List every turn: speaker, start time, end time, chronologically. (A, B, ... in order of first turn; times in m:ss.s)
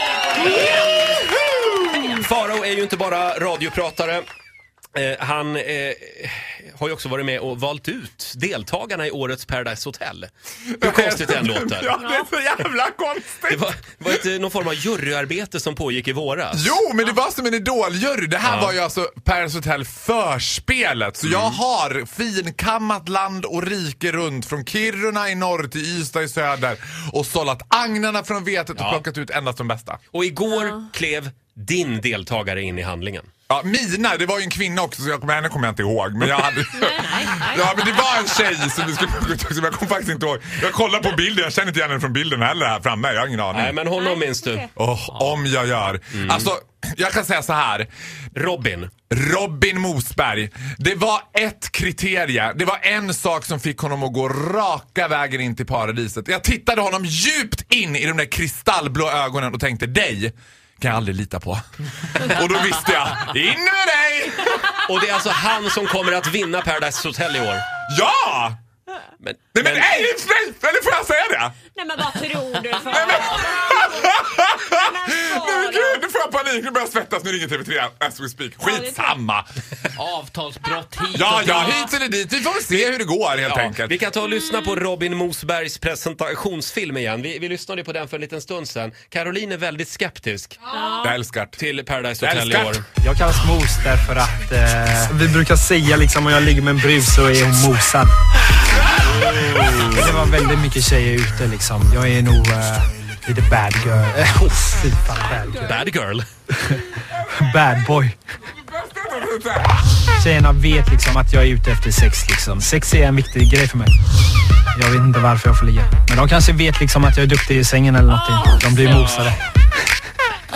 0:00.4-0:00.6 A
0:00.5-0:00.9 B
0:00.6-0:02.1 C
0:02.1-0:04.2 B
0:04.9-0:11.9 B
0:10.7-0:14.2 C
0:11.9-0:12.3 A
0:13.5-0:16.7 B
0:16.5-0:30.0 C
0:18.4-0:18.7 B
0:21.2-0:21.6 B
0:28.8-0:29.0 B
0:30.1-0:33.3 B
0:33.5-0:43.8 C
0:36.7-0:37.8 A
0:43.5-0:45.4 B
0:43.9-0:44.7 A
0:44.8-0:47.9 C
0:46.1-0:46.5 B
0:48.3-0:48.9 B
0:49.1-1:04.7 C
1:04.8-1:07.6 B
1:07.8-1:08.6 C
1:09.2-1:09.9 B
1:09.5-1:11.6 C
1:11.7-1:16.0 A
1:12.9-1:19.4 C
1:18.6-1:19.2 A
1:20.0-1:21.9 D
1:21.1-1:24.0 C
1:23.5-1:30.6 B
1:30.7-1:31.2 A
1:31.0-1:31.6 C
1:31.6-1:32.8 B
1:32.2-1:32.8 C
1:33.0-1:38.1 E
1:39.0-1:40.2 B
1:39.9-1:45.7 E
1:45.1-1:45.9 A
1:45.6-1:46.3 B
1:47.0-1:48.0 C
1:47.3-1:48.1 E
1:48.5-1:49.8 C
1:50.2-1:53.9 E
1:54.7-1:59.4 E
1:58.8-1:59.3 B